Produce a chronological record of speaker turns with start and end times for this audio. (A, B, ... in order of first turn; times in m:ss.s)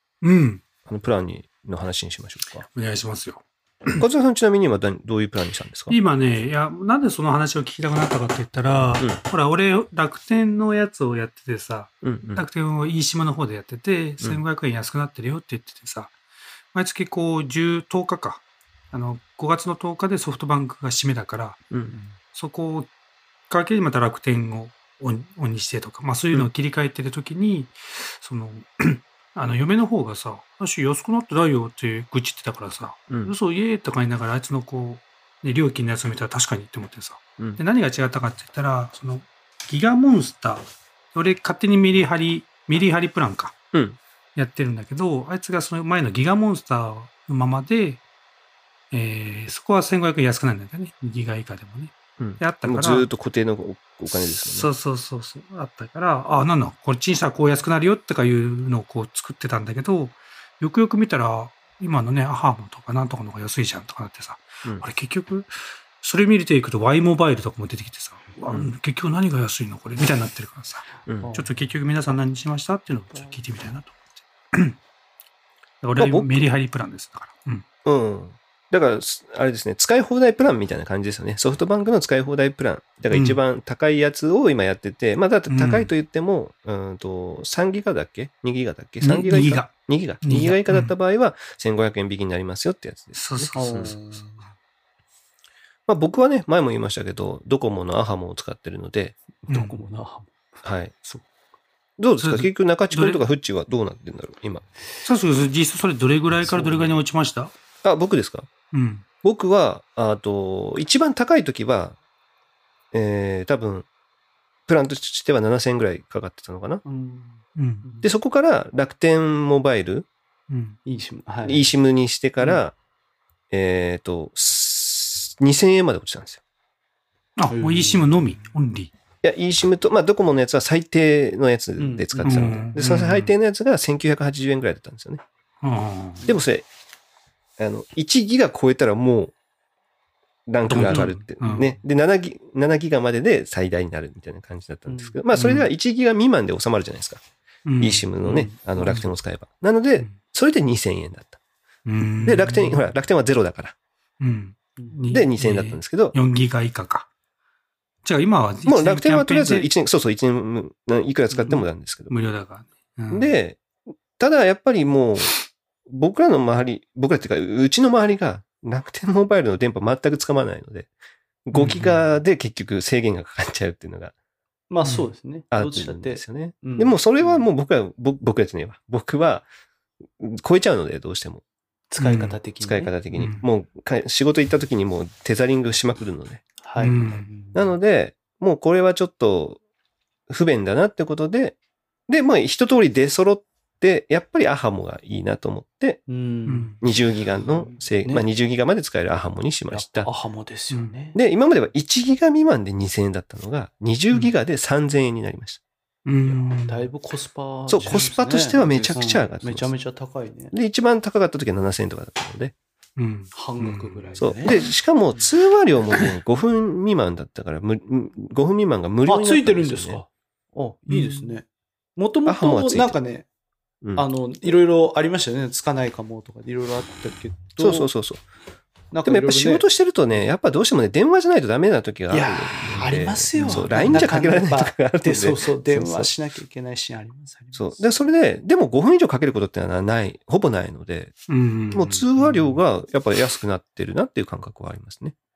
0:00.2-0:00.6 A
0:00.8-0:02.7 B
0:02.6-0:04.0 A
0:03.9-0:06.0 B
0:05.9-0:16.1 A
0:12.0-0:12.4 B
0:16.7-0:21.6 A
0:21.7-0:22.0 B
0:22.2-0:22.9 A
0:23.5-0:43.6 A
0:43.7-0:44.0 B
0:44.4-0:48.0 A
0:48.9-0:53.1 A
0:52.2-0:54.7 B
0:54.1-1:14.0 A
1:11.1-1:11.3 B
1:11.2-1:11.6 C
1:14.5-1:14.8 A
1:15.8-1:17.6 A
1:16.0-1:16.4 B
1:17.8-1:34.0 B
1:23.1-1:23.4 A
1:25.5-1:25.9 A
1:29.0-1:30.9 A
1:33.1-1:33.6 A
1:33.5-1:34.4 C
1:35.9-1:39.2 B
1:39.4-1:40.3 C
1:39.5-1:39.8 A
1:40.6-1:40.9 B
1:42.0-1:44.6 B
1:42.2-1:43.2 A
1:45.0-1:47.5 A
1:46.4-1:46.9 C
1:47.8-1:48.5 B
1:48.7-1:49.0 A
1:49.2-1:52.0 B
1:52.9-1:53.9 B
1:54.7-1:56.8 B
1:56.8-1:58.1 C
1:57.5-1:57.8 A
1:58.0-2:00.1 B
2:00.5-2:00.8 A
2:00.8-2:01.7 C
2:01.4-2:02.7 B
2:03.5-2:06.4 B
2:07.4-2:08.9 A
2:07.5-2:08.4 C
2:09.2-2:15.2 B
2:11.8-2:12.7 C
2:12.2-2:13.3 A
2:15.6-2:16.3 A
2:16.3-2:16.7 B
2:17.6-2:19.3 B
2:20.5-2:27.2 B
2:20.7-2:21.8 A
2:20.7-2:21.1 C
2:24.9-2:25.2 C
2:25.3-2:25.7 A
2:27.6-2:28.1 A
2:27.8-2:31.4 B
2:28.2-2:28.8 C
2:28.8-2:29.1 A
2:31.8-2:32.9 A
2:32.2-2:33.7 B
2:34.2-2:37.1 A
2:35.1-2:36.1 B
2:38.0-2:39.7 A
2:38.6-2:42.1 B
2:41.3-2:41.6 C
2:42.1-2:43.4 A
2:43.1-2:45.3 B
2:45.9-2:50.9 B
2:51.4-2:54.1 B
2:51.5-2:52.0 A
2:54.7-2:57.4 C
2:54.8-2:55.1 A
2:55.5-2:59.5 B
3:00.2-3:01.4 B
3:01.9-3:02.9 C
3:02.0-3:02.4 A
3:02.6-3:06.4 B
3:03.1-3:03.4 A
3:06.6-3:07.7 C
3:06.8-3:07.2 A
3:07.5-3:09.6 B
3:10.3-3:11.6 B
3:12.1-3:16.0 B
3:16.1-3:16.8 C
3:16.5-3:16.8 A
3:16.8-3:20.1 B
3:19.7-3:21.2 C
3:21.1-3:25.6 B
3:26.0-3:26.9 A
3:26.2-3:30.5 C
3:27.7-3:29.7 B
3:30.5-3:32.5 B
3:33.0-3:34.6 A
3:33.3-3:35.2 C
3:34.2-3:40.0 B
3:39.0-3:41.4 C
3:40.9-3:41.4 A
3:42.0-3:43.2 C
3:42.2-3:43.0 B
3:44.0-3:47.9 C
3:47.6-3:48.2 B
3:48.9-3:49.6 C
3:49.0-3:56.1 B
3:52.1-3:57.9 C
3:53.3-3:53.7 A
3:57.5-4:01.1 B
4:01.3-4:02.6 A
4:01.7-4:05.1 B